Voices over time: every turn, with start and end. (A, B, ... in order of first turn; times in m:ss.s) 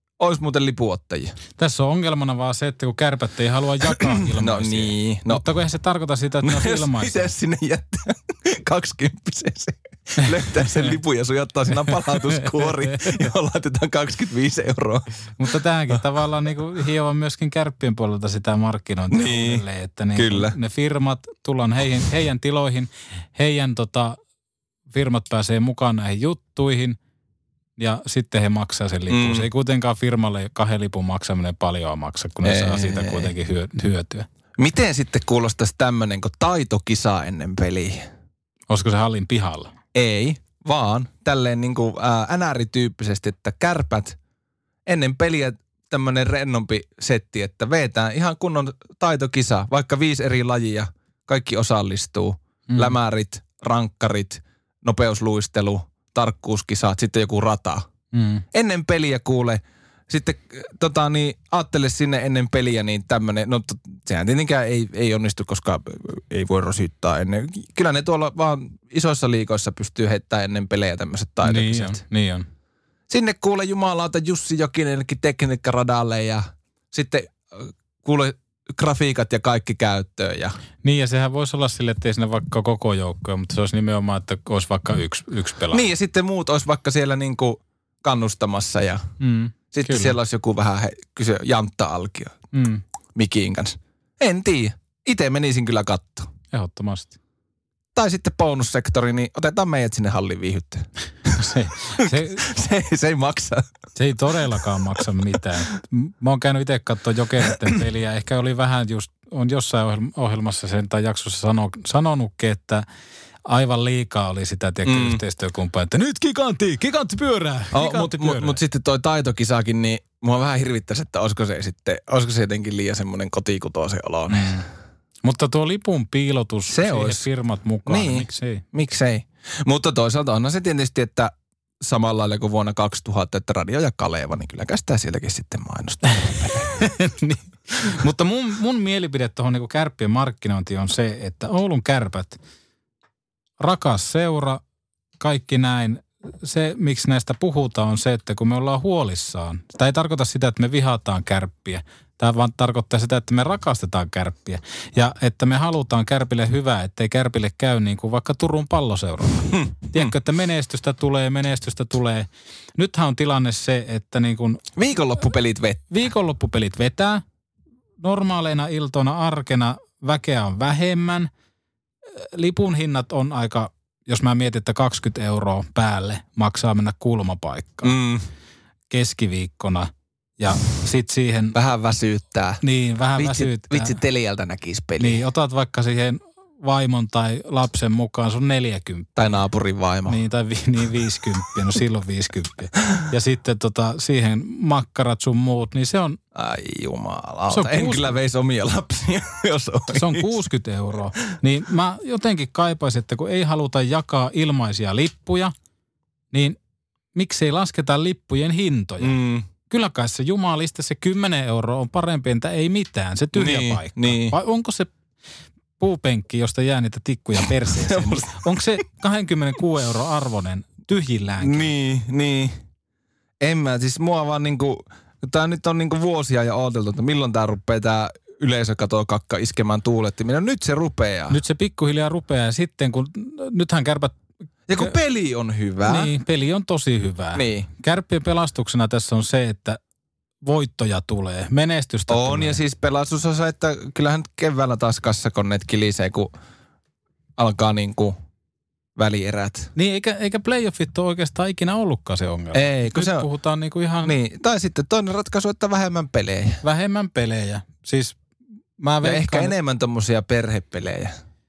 0:00.2-0:01.4 A
0:01.6-0:07.3 B
0:03.9-0:05.5 A
0:06.4-0:15.1 A
0:10.5-0:10.9 B
0:12.4-0:13.1 B
0:15.4-0:24.2 B
0:19.1-0:19.6 A
0:20.1-0:20.5 A
0:24.9-0:27.0 B
0:27.8-0:34.3 B
0:29.1-0:29.5 A
0:32.4-0:33.3 A
0:34.6-0:38.0 A
0:38.7-0:39.7 B
0:39.9-0:44.2 A
0:44.9-0:57.9 A
0:52.7-0:53.0 B
0:58.1-0:58.4 B
0:58.5-1:12.0 A
1:11.4-1:12.5 B
1:13.1-1:20.6 A
1:20.8-1:25.8 B
1:25.7-1:29.1 A
1:29.2-1:30.1 B
1:29.7-1:32.4 A
1:32.5-1:32.8 B
1:33.1-1:36.3 A
1:36.5-1:37.1 B
1:37.9-1:43.7 A
1:41.4-1:42.4 B
1:44.0-1:52.8 B
1:53.4-1:58.6 B
1:54.8-1:55.2 A
1:57.7-2:04.6 A
2:04.3-2:04.6 B
2:05.2-2:08.6 B
2:06.7-2:07.3 A
2:07.9-2:16.7 A
2:16.8-2:22.4 B
2:23.6-2:24.6 B
2:25.2-2:44.6 B
2:39.5-2:40.1 A
2:44.8-2:45.9 A
2:45.9-2:47.2 B
2:48.0-2:51.3 B
2:52.1-2:58.0 B
2:57.8-2:58.2 A
2:58.9-3:01.5 B
3:01.5-3:02.6 A
3:02.6-3:03.9 B
3:03.2-3:05.2 A
3:05.0-3:09.4 B
3:09.2-3:10.2 A
3:10.1-3:16.2 B
3:16.4-3:20.3 A
3:17.5-3:18.1 B
3:19.9-3:25.5 B
3:26.3-3:26.6 B
3:27.1-3:29.1 B
3:29.0-3:29.5 A
3:29.7-3:34.9 B
3:33.4-3:34.4 A
3:35.8-3:41.7 B
3:37.7-3:38.4 A
3:41.4-3:42.6 A
3:43.4-3:51.4 A
3:51.3-3:54.1 B
3:54.7-3:56.1 A
3:55.8-3:59.8 B
3:57.3-3:57.7 A
4:00.4-4:02.6 B
4:02.1-4:06.3 A
4:07.4-4:08.2 A
4:09.0-4:09.7 A
4:09.8-4:14.1 B
4:12.5-4:13.3 A
4:14.0-4:16.6 A
4:16.6-4:18.2 B
4:18.8-4:19.5 B
4:19.0-4:21.1 A